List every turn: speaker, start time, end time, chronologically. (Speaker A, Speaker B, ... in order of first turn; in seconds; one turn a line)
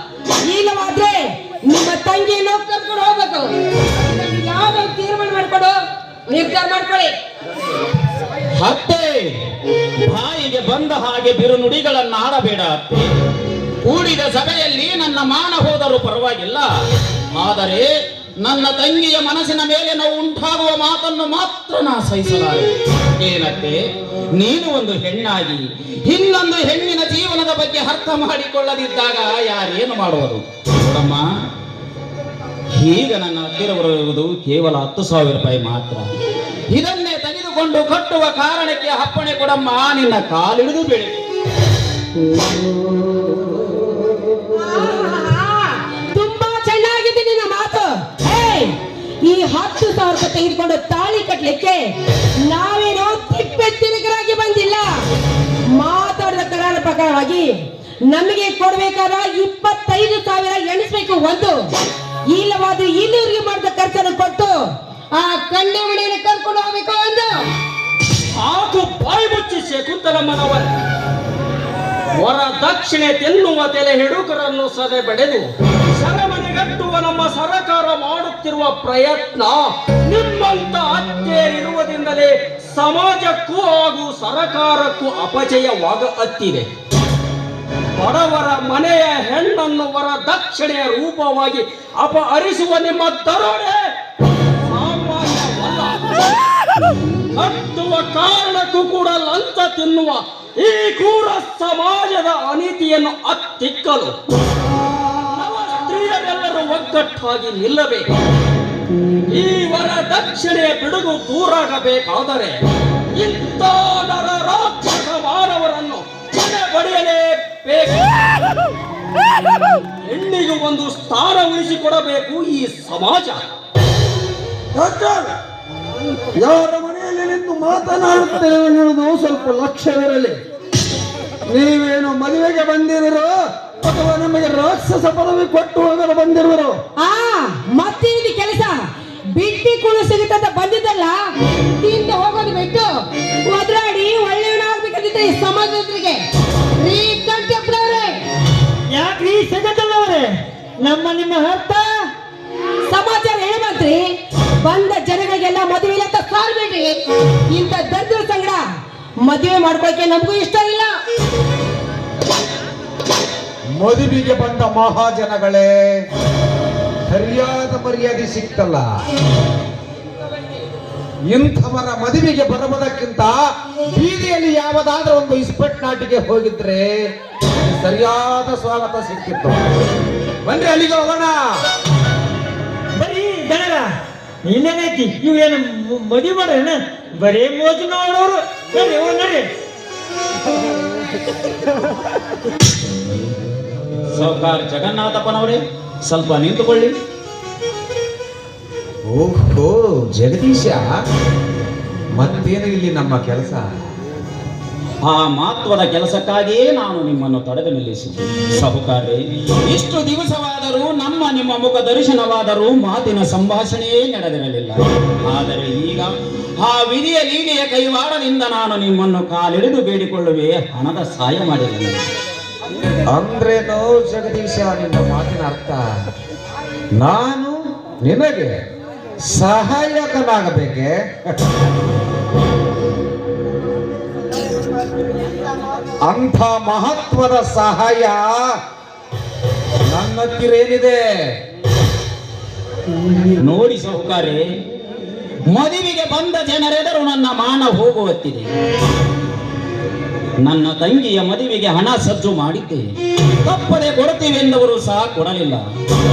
Speaker A: 0.4-5.8
Speaker A: 6.3-7.1
Speaker B: 8.6-9.3
Speaker B: 10.1-13.1
Speaker B: 13.8-16.6
Speaker B: 17.3-17.9
Speaker B: 18.4-23.8
Speaker B: 24.3-31.2
Speaker B: 32.7-36.0
Speaker B: 36.7-41.2
Speaker A: 44.6-51.9
Speaker A: 52.4-55.0
Speaker A: 55.7-57.5
Speaker A: 58.1-61.7
Speaker A: 62.3-64.5
Speaker A: 65.1-67.3
Speaker C: 68.4-70.7
Speaker C: 72.2-86.7
Speaker C: 88.0-93.8
Speaker C: 94.6-96.3
Speaker C: 97.3-104.1
Speaker C: 105.3-108.1
Speaker C: 109.3-112.6
Speaker C: 113.1-118.1
Speaker C: 120.0-123.4
Speaker D: 124.8-125.3
Speaker D: 126.4-130.4
Speaker D: 131.5-136.8
Speaker A: 137.0-141.2
Speaker A: 141.8-146.2
Speaker A: 146.8-148.2
Speaker E: 148.9-150.3
Speaker E: 150.8-151.9
Speaker A: 152.8-158.6
Speaker A: 159.2-160.9
Speaker F: 163.8-165.7
Speaker F: 167.1-168.8
Speaker F: 171.3-176.9
Speaker F: 177.6-179.6
Speaker F: 180.4-181.4
Speaker E: 183.0-183.9
Speaker E: 184.4-189.5
Speaker B: 194.1-196.9
Speaker F: 199.1-200.8
Speaker F: 202.2-203.6
Speaker B: 205.0-222.1
Speaker F: 223.1-225.8
Speaker F: 227.0-227.5
Speaker F: 228.0-228.5
Speaker F: 229.3-231.3
Speaker F: 236.1-238.3
Speaker F: 239.9-241.0
Speaker B: 243.4-244.4
Speaker B: 245.5-248.5
Speaker B: 250.4-252.8
Speaker B: 253.4-255.6